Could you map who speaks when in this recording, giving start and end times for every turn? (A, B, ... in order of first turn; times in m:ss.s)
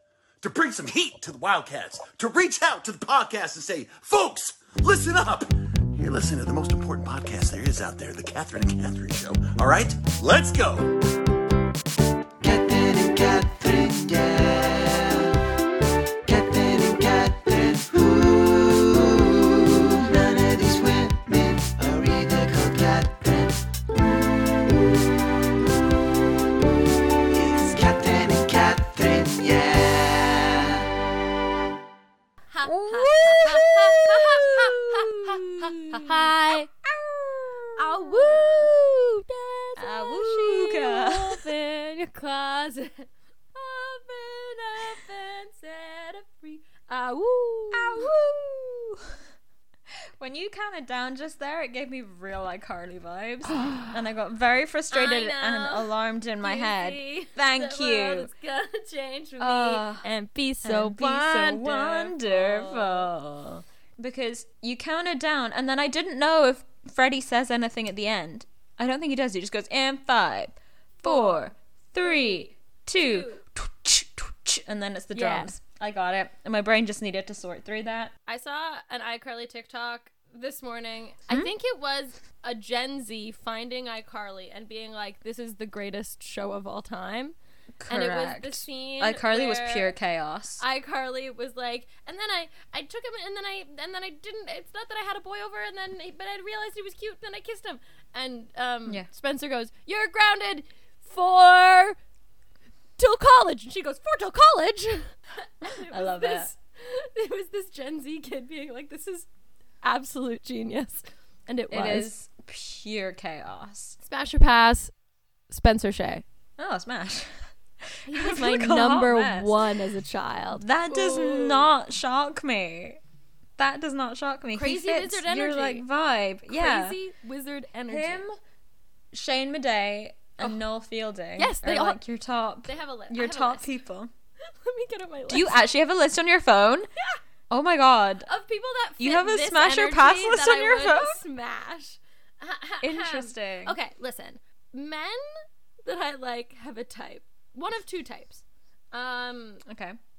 0:00.4-0:10.9 A
0:12.4-0:15.4 B
0:16.3-0:23.8 B
0:27.3-0:30.9 B
0:32.5-0:36.7 C
0:32.7-0:38.7 D
0:37.8-0:48.1 C
0:39.8-0:41.6 D
0:47.7-0:49.0 D
0:50.2-0:58.3 D
0:54.9-0:55.9 C
0:56.4-1:03.1 C
0:59.4-1:00.0 D
1:00.6-1:18.1 D
1:11.0-1:13.4 C
1:15.1-1:15.5 C
1:18.3-1:27.4 C
1:27.8-1:30.6 D
1:27.9-1:29.9 C
1:30.6-1:42.0 C
1:43.0-1:49.3 C
1:45.6-1:46.5 D
1:49.8-1:52.1 C
1:51.7-1:54.0 D
1:54.1-1:54.9 C
1:55.5-1:56.2 C
1:56.6-1:59.6 D
1:58.1-2:01.7 C
2:00.6-2:03.0 D
2:03.6-2:07.0 D
2:04.6-2:05.8 C
2:06.5-2:08.2 C
2:07.9-2:08.4 D
2:09.1-2:14.1 D
2:11.4-2:12.0 C
2:12.7-2:13.7 C
2:14.4-2:15.6 C
2:15.3-2:16.9 D
2:17.5-2:18.3 D
2:18.3-2:25.2 C
2:19.0-2:21.2 D
2:22.8-2:23.8 D
2:25.8-2:29.6 C
2:29.6-2:30.0 D